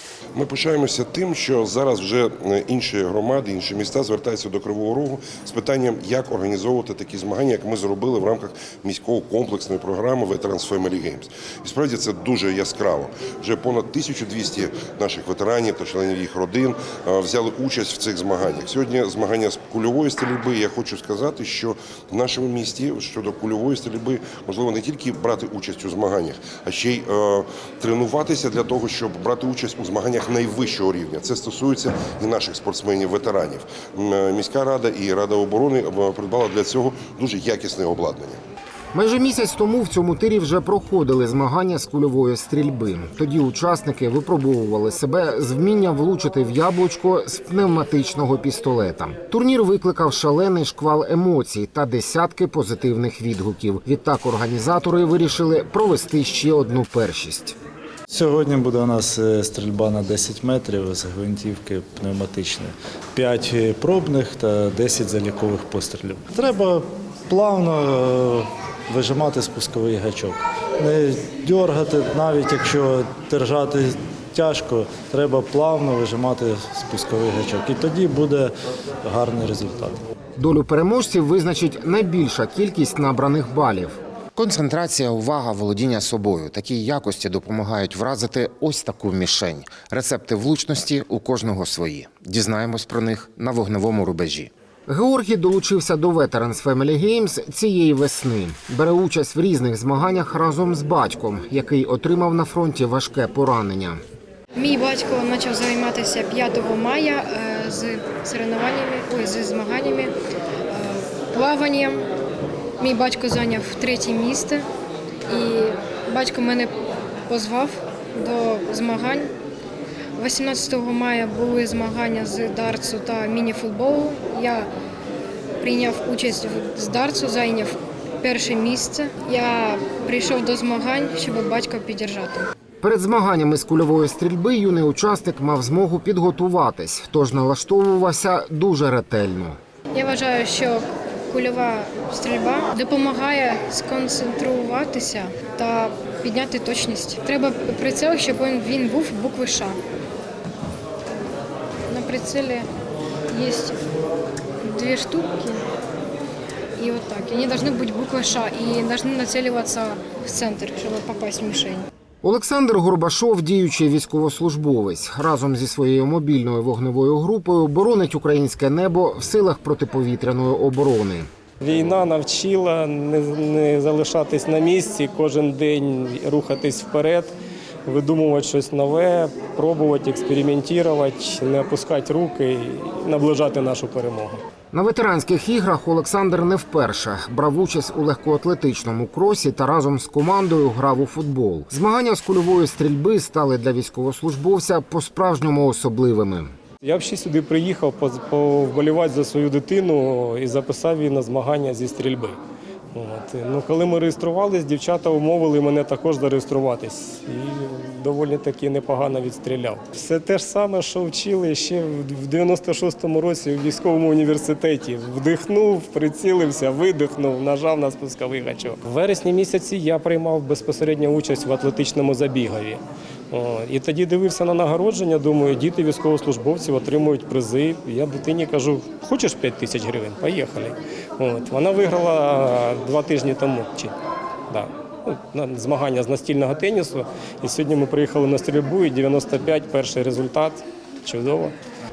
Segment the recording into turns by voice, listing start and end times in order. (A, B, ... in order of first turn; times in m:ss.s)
0:00.3-0:38.4 A
0:38.9-0:57.6 B
0:58.1-1:20.0 C
1:20.4-1:44.0 B
1:44.5-1:50.1 D
1:50.7-1:52.0 D
1:52.8-1:54.6 D
1:55.3-1:56.7 D
1:57.3-1:59.3 D
2:00.2-2:04.7 D
2:05.6-2:12.5 D
2:12.8-2:19.6 B
2:19.9-2:29.8 D
2:31.9-2:32.6 D
2:33.3-2:33.8 D
2:34.6-2:35.6 D
2:36.8-2:41.9 D
2:42.2-2:51.3 B
2:51.6-2:57.3 E
2:57.8-3:04.4 E
3:04.7-3:16.5 B
3:16.8-3:22.4 E
3:22.9-3:53.9 E
3:54.5-4:01.5 E